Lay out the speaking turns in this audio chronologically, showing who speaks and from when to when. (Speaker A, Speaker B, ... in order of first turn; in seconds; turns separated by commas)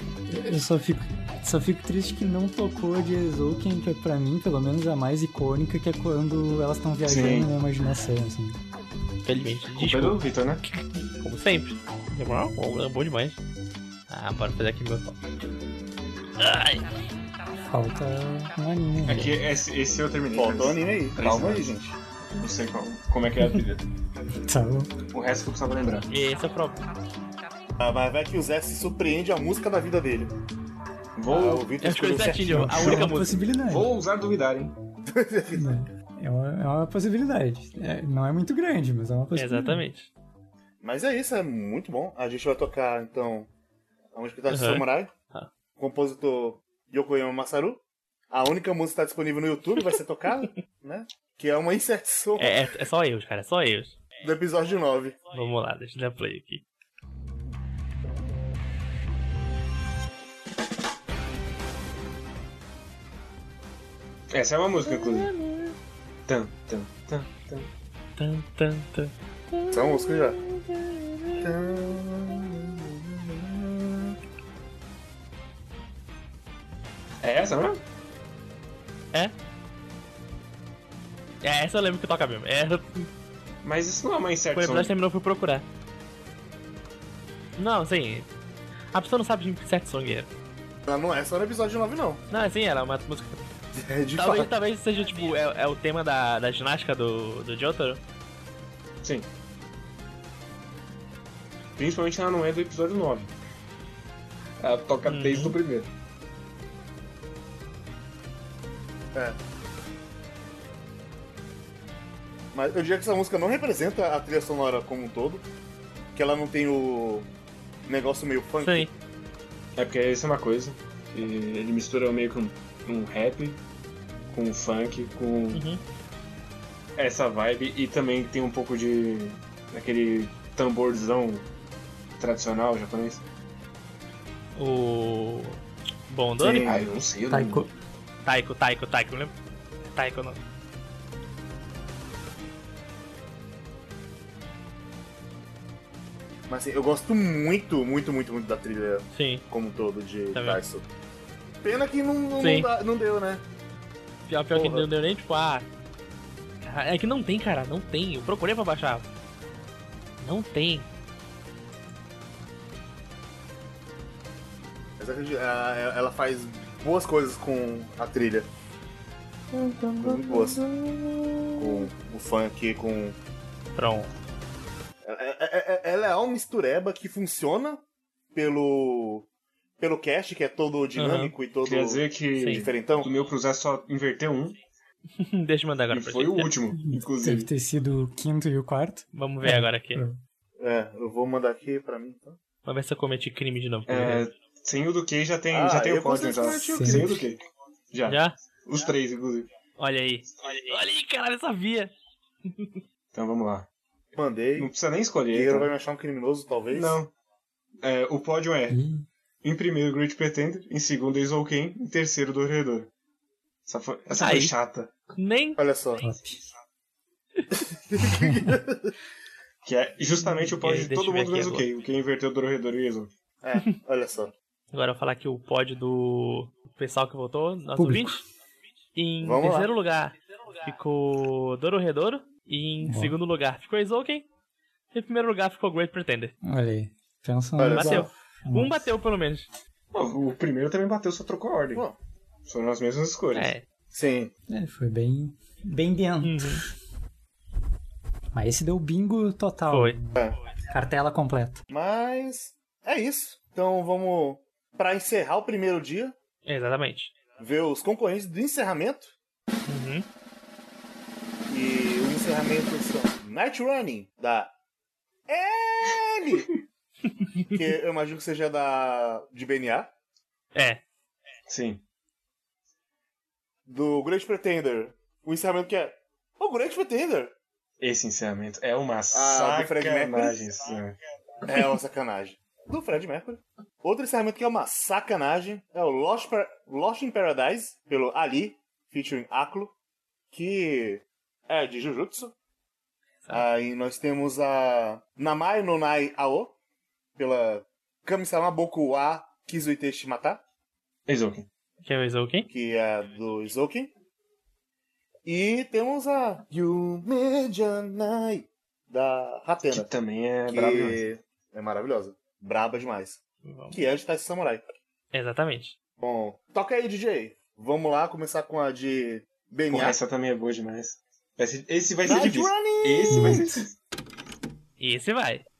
Speaker A: 0.3-8.6, Speaker B: 7.0-7.5, Speaker C: 9.2-13.4, Speaker B: 9.7-10.6, Speaker C: 14.1-15.2, Speaker C: 16.4-16.9, Speaker A: 17.6-19.4, Speaker B: 19.0-21.8, Speaker D: 20.3-21.9, Speaker B: 22.3-23.8, Speaker A: 24.4-24.9, Speaker B: 25.1-26.1, Speaker C: 26.1-26.8, Speaker D: 27.8-30.3, Speaker B: 31.1-31.7, Speaker D: 31.3-32.9, Speaker C: 31.8-33.4, Speaker A: 32.5-33.9, Speaker B: 32.7-33.1, Speaker B: 33.6-34.7, Speaker D: 35.1-35.6, Speaker A: 35.5-39.8, Speaker C: 39.3-40.1, Speaker D: 40.8-43.5, Speaker D: 44.1-45.1, Speaker C: 44.5-45.5, Speaker D: 45.8-52.6, Speaker C: 52.4-54.0, Speaker D: 54.2-55.2, Speaker C: 55.3-56.6, Speaker B: 64.3-65.3, Speaker C: 64.8-65.7, Speaker B: 66.3-67.7, Speaker C: 68.2-71.5, Speaker D: 69.7-70.4, Speaker D: 71.4-74.2, Speaker B: 77.2-77.8, Speaker C: 81.4-83.1, Speaker B: 83.6-84.9, Speaker C: 84.5-85.7, Speaker C: 87.6-88.3, Speaker C: 88.9-90.3, Speaker D: 90.8-92.2, Speaker C: 92.3-93.5, Speaker D: 93.8-94.5, Speaker C: 94.2-98.0, Speaker B: 99.0-99.3, Speaker B: 101.8-103.3, Speaker B: 104.6-105.9, Speaker C: 105.1-105.5, Speaker D: 112.5-115.4, Speaker D: 116.1-117.3, Speaker D: 117.9-118.9, Speaker C: 118.6-118.9, Speaker B: 119.8-123.6, Speaker B: 124.3-125.6, Speaker C: 125.5-125.8, Speaker B: 127.0-131.5, Speaker B: 132.2-133.2, Speaker C: 134.6-136.7, Speaker D: 136.4-136.8, Speaker B: 136.6-137.7, Speaker A: 137.3-137.7, Speaker C: 138.2-139.3, Speaker C: 139.9-140.4, Speaker D: 146.5-150.8, Speaker C: 149.1-149.4, Speaker D: 151.6-153.4, Speaker C: 152.4-152.7, Speaker C: 154.3-155.7, Speaker D: 154.5-154.9, Speaker C: 156.6-159.1, Speaker C: 160.2-160.9, Speaker D: 165.0-168.5, Speaker D: 170.0-170.6, Speaker D: 171.6-173.2, Speaker B: 171.6-171.9, Speaker C: 173.8-174.1, Speaker D: 175.0-177.8, Speaker D: 178.3-179.3, Speaker D: 179.8-182.0, Speaker C: 180.9-181.3, Speaker B: 181.6-184.6, Speaker C: 182.4-182.6, Speaker D: 182.5-183.1, Speaker C: 185.2-186.5, Speaker B: 185.9-187.5, Speaker A: 186.7-190.2, Speaker C: 189.1-190.0, Speaker D: 190.6-192.4, Speaker C: 192.6-194.2, Speaker B: 193.9-199.5, Speaker D: 195.5-197.2, Speaker A: 196.7-197.2, Speaker C: 198.1-198.3, Speaker C: 199.8-201.9, Speaker C: 202.4-202.8, Speaker B: 203.1-203.7, Speaker D: 204.2-204.7, Speaker B: 204.6-205.7, Speaker D: 205.3-207.0, Speaker B: 206.7-207.1, Speaker B: 207.8-208.8, Speaker A: 208.7-209.1, Speaker B: 209.4-212.9, Speaker B: 213.7-214.9, Speaker C: 214.2-214.5, Speaker C: 215.2-215.6, Speaker D: 215.6-216.0, Speaker A: 216.0-216.4, Speaker D: 217.9-218.9, Speaker A: 218.0-218.5, Speaker B: 219.6-223.1, Speaker C: 220.4-221.7, Speaker D: 223.4-224.3, Speaker C: 224.7-228.2, Speaker A: 227.8-228.2, Speaker C: 228.9-234.2, Speaker D: 229.2-229.7, Speaker A: 232.8-233.2, Speaker C: 234.9-236.3, Speaker A: 236.4-238.9, Speaker D: 237.6-238.1, Speaker C: 237.7-239.5, Speaker B: 239.9-241.8, Speaker B: 242.4-243.5, Speaker C: 243.3-243.6, Speaker D: 243.9-244.3, Speaker A: 244.5-246.6, Speaker C: 246.2-246.6, Speaker A: 248.3-250.2, Speaker C: 249.7-249.9, Speaker A: 250.7-251.6, Speaker D: 251.7-256.1, Speaker C: 256.4-257.1, Speaker D: 257.4-259.1, Speaker C: 259.7-260.1, Speaker D: 261.5-264.5, Speaker D: 265.3-266.5, Speaker D: 267.5-269.9, Speaker C: 270.5-270.8, Speaker B: 271.5-271.8, Speaker D: 273.7-277.3, Speaker B: 277.8-281.0, Speaker D: 279.1-280.4, Speaker D: 281.5-289.7, Speaker D: 290.3-292.3, Speaker D: 293.3-296.5, Speaker D: 297.2-300.4, Speaker B: 301.1-301.5, Speaker C: 301.8-302.5, Speaker D: 302.5-303.9, Speaker D: 305.2-309.9, Speaker B: 309.7-311.0, Speaker D: 310.5-314.6, Speaker C: 313.4-313.8, Speaker C: 315.1-315.8, Speaker D: 316.0-320.0, Speaker B: 319.7-323.7, Speaker D: 322.0-323.4, Speaker A: 323.1-323.6, Speaker C: 324.8-325.4